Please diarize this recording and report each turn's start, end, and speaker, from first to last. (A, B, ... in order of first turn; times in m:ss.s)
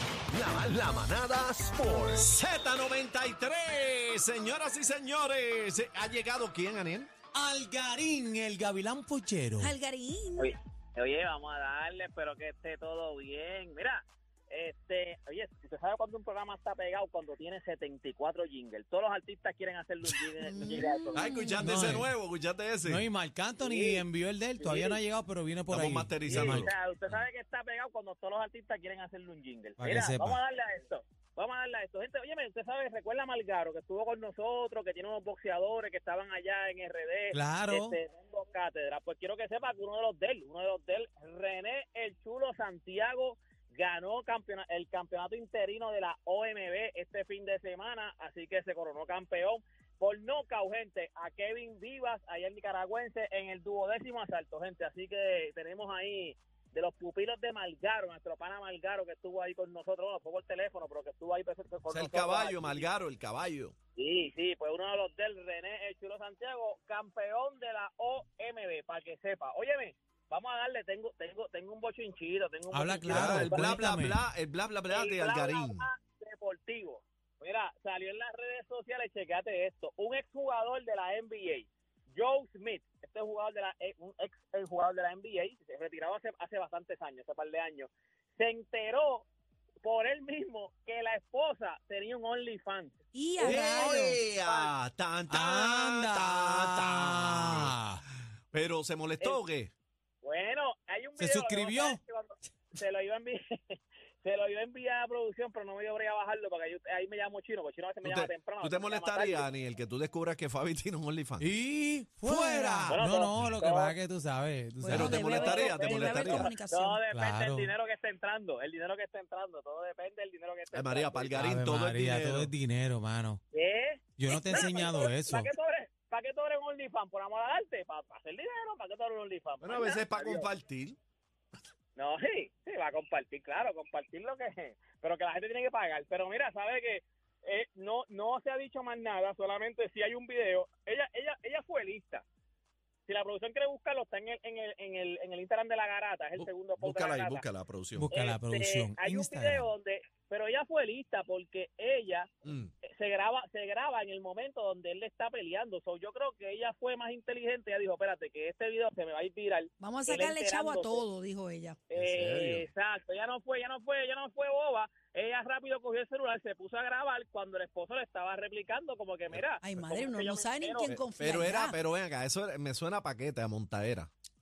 0:00.3-0:07.1 A
0:07.3-0:09.7 B
0:09.6-0:10.5 C
0:10.4-0:21.4 D
0:20.4-0:21.6 C
0:21.1-0:23.0 A
0:21.6-0:22.1 B
0:22.8-0:26.7 B
0:23.6-0:24.0 D
0:24.6-0:25.0 D
0:25.7-0:26.7 A
0:26.2-1:02.9 D
0:29.8-0:30.4 B
0:37.3-0:38.0 B
1:01.9-1:03.7 A
1:04.0-1:13.7 D
1:12.7-1:14.2 B
1:13.1-1:15.9 A
1:14.9-1:29.3 D
1:29.8-1:34.7 D
1:33.1-1:34.2 C
1:33.4-1:37.8 A
1:35.3-1:38.0 B
1:38.5-1:39.7 A
1:40.2-1:49.5 D
1:41.2-1:42.0 B
1:48.0-1:51.5 A
1:51.4-1:55.3 B
1:52.2-1:53.5 A
1:52.9-1:54.0 D
1:54.8-1:57.1 C
1:54.9-1:56.5 A
1:54.9-2:01.5 D
1:57.1-1:57.7 B
2:00.7-2:02.5 A
2:01.4-2:03.4 B
2:03.5-2:10.5 D
2:04.2-2:05.5 B
2:09.6-2:11.0 A
2:12.0-2:22.2 D
2:23.1-2:27.4 D
2:26.4-2:28.1 A
2:27.9-2:29.7 B
2:28.1-2:32.3 D
2:32.4-2:32.7 A
2:32.8-2:41.0 D
2:39.8-2:41.8 C
2:41.9-2:50.9 D
2:42.0-2:42.7 A
2:49.6-2:51.8 C
2:50.9-2:54.1 A